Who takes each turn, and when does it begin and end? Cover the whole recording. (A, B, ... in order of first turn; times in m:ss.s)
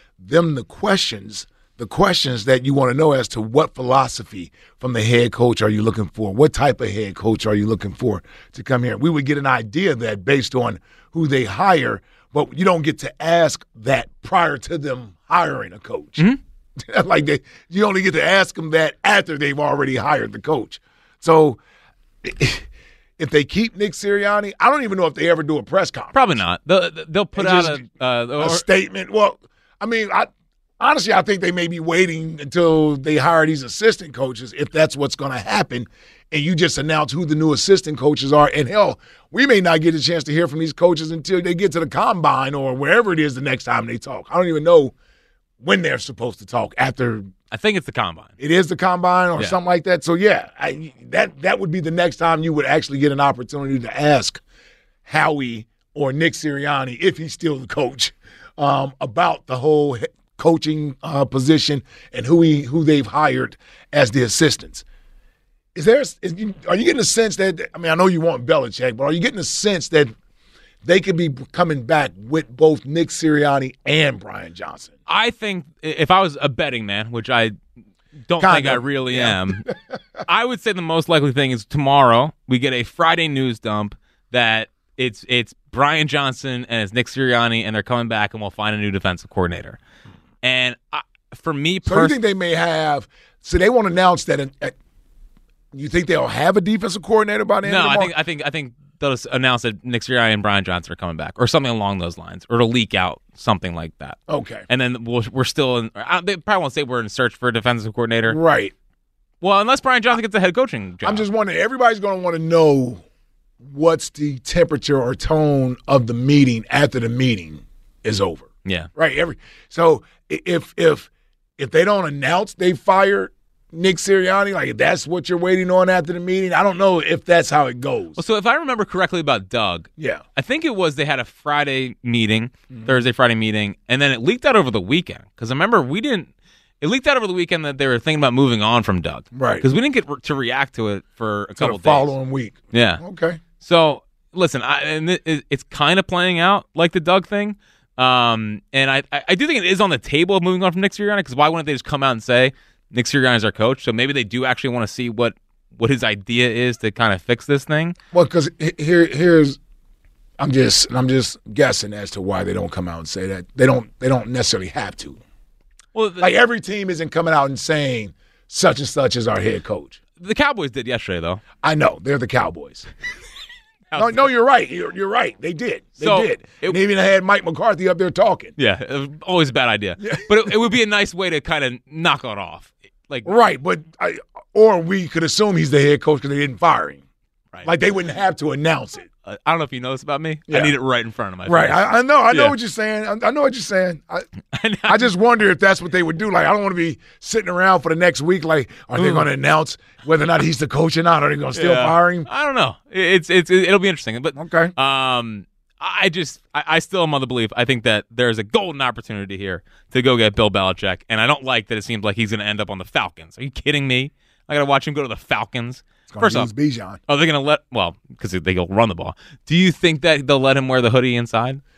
0:00.2-0:16.3 A
0:16.8-0:21.6 A
0:22.2-0:22.7 A
0:23.2-0:26.2 A
0:26.1-0:28.6 B
0:27.4-0:27.8 A
0:28.4-0:44.9 A
0:45.6-0:47.3 A
0:47.5-0:48.3 B
0:48.4-0:54.4 A
0:55.1-1:04.8 A
1:05.8-1:10.1 A
1:10.8-1:14.9 A
1:15.1-1:17.5 B
1:18.2-1:19.7 B
1:18.4-1:19.7 A
1:20.2-1:29.8 B
1:30.4-1:32.2 B
1:31.9-1:34.8 A
1:35.7-1:38.1 A
1:37.6-1:48.4 B
1:44.3-1:44.6 A
1:48.2-1:48.7 A
1:49.4-1:51.3 B
1:51.0-1:53.0 A
1:53.6-2:08.2 A
2:08.2-2:16.3 B
2:10.0-2:10.2 A
2:16.8-2:22.1 B
2:19.3-2:19.7 A
2:21.6-2:23.4 A
2:22.7-2:23.0 B
2:23.6-2:38.0 B
2:38.1-2:39.6 A
2:40.4-2:45.2 A
2:46.0-2:46.3 B
2:46.2-2:50.0 A
2:50.2-2:51.4 B
2:51.6-2:52.9 A
2:53.9-2:54.3 B
2:54.0-2:58.6 A
2:56.0-2:56.8 B
2:58.6-3:03.3 B
3:00.0-3:00.6 A
3:03.2-3:07.0 A
3:07.6-3:09.1 A
3:09.2-3:12.6 B
3:10.5-3:10.7 A
3:11.4-3:14.2 A
3:14.5-3:15.1 B
3:14.9-3:22.3 A
3:19.0-3:19.3 B
3:21.5-3:36.5 B
3:24.4-3:24.7 A
3:36.1-3:37.0 A
3:37.1-3:41.6 B